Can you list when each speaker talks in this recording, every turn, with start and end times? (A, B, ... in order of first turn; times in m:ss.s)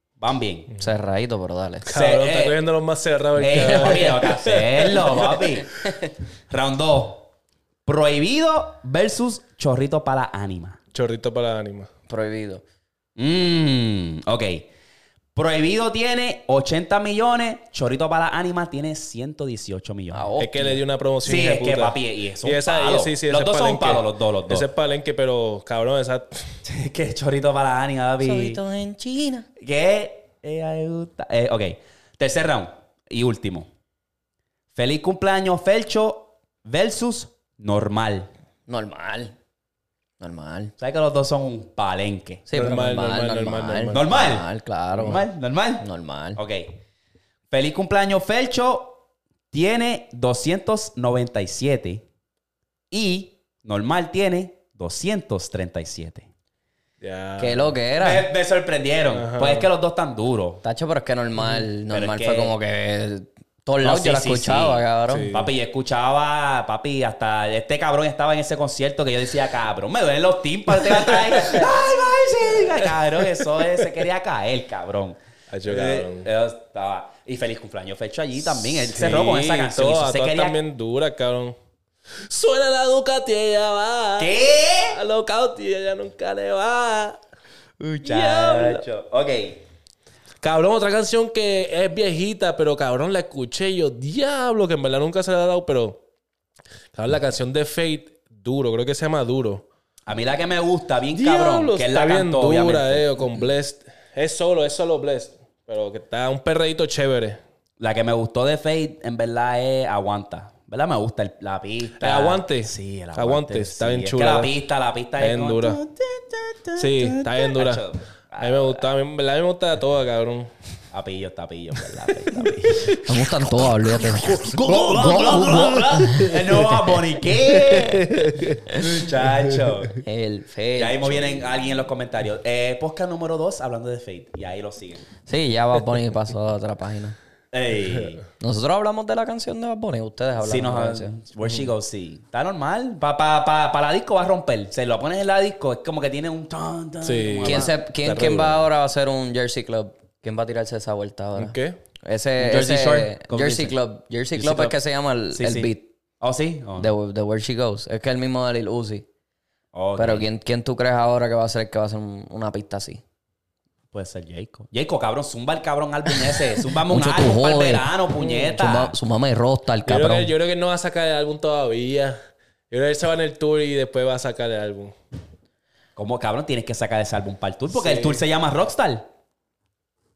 0:00.2-0:00.7 A
0:00.8-0:01.9 B
0:01.8-0:05.5 C
0:01.9-0:02.6 A
0:03.4-0:05.7 A
0:06.5-0:07.3 A
0:07.8-0:10.8 A
0:10.9-0:11.9 C
0:12.1-0:12.6 B
0:13.2-0:14.7 A
0:15.3-0:20.3 A
0:20.1-0:20.8 B
0:20.4-0:26.5 C
0:21.2-0:24.7 A
0:26.6-0:28.6 A
0:28.2-0:29.4 B
0:29.6-0:33.7 A
0:34.7-0:38.3 A
0:38.7-0:39.3 B
0:40.2-0:40.7 B
0:40.8-0:42.5 A
0:42.5-0:45.2 B
0:42.5-0:44.1 C
0:43.9-0:44.5 A
0:45.0-0:46.8 A
0:45.8-0:46.4 B
0:47.5-0:52.0 A
0:52.9-0:56.3 A
0:57.0-0:57.7 C
0:57.4-0:58.3 B
0:58.0-1:00.6 A
0:59.1-0:59.7 C
1:00.6-1:05.3 B
1:01.9-1:02.5 A
1:03.8-1:20.6 A
1:05.1-1:05.5 C
1:10.8-1:11.7 C
1:12.5-1:13.8 C
1:15.5-1:16.3 C
1:18.7-1:21.5 C
1:22.2-1:24.4 C
1:24.2-1:25.0 A
1:24.9-1:27.2 C
1:27.8-1:29.6 A
1:28.0-1:28.8 C
1:30.4-1:36.0 C
1:36.9-1:39.6 C
1:40.1-1:43.2 A
1:41.1-1:47.4 C
1:47.8-1:58.9 A
1:52.0-1:54.5 C
1:55.2-1:55.8 C
1:56.8-1:57.8 C
1:58.4-2:00.5 C
2:00.9-2:03.0 A
2:02.4-2:03.0 C
2:03.0-2:06.4 B
2:04.3-2:10.0 A
2:07.4-2:08.8 C
2:09.5-2:09.8 C
2:10.0-2:11.5 B
2:10.8-2:15.0 A
2:15.3-2:17.2 B
2:17.5-2:18.2 A
2:18.4-2:21.2 B
2:20.4-2:27.8 A
2:27.0-2:28.6 C
2:27.4-2:35.9 B
2:31.4-2:31.8 C
2:32.4-2:33.8 A
2:34.4-2:34.8 A
2:35.3-2:36.9 A
2:36.8-2:39.0 B
2:39.7-2:40.2 A
2:40.0-2:43.0 B
2:43.9-2:48.9 A
2:46.9-2:47.9 B
2:48.2-2:48.6 C
2:48.6-2:50.3 B
2:49.9-2:52.2 C
2:52.7-2:54.9 C
2:56.0-2:59.1 A
2:57.7-2:58.2 C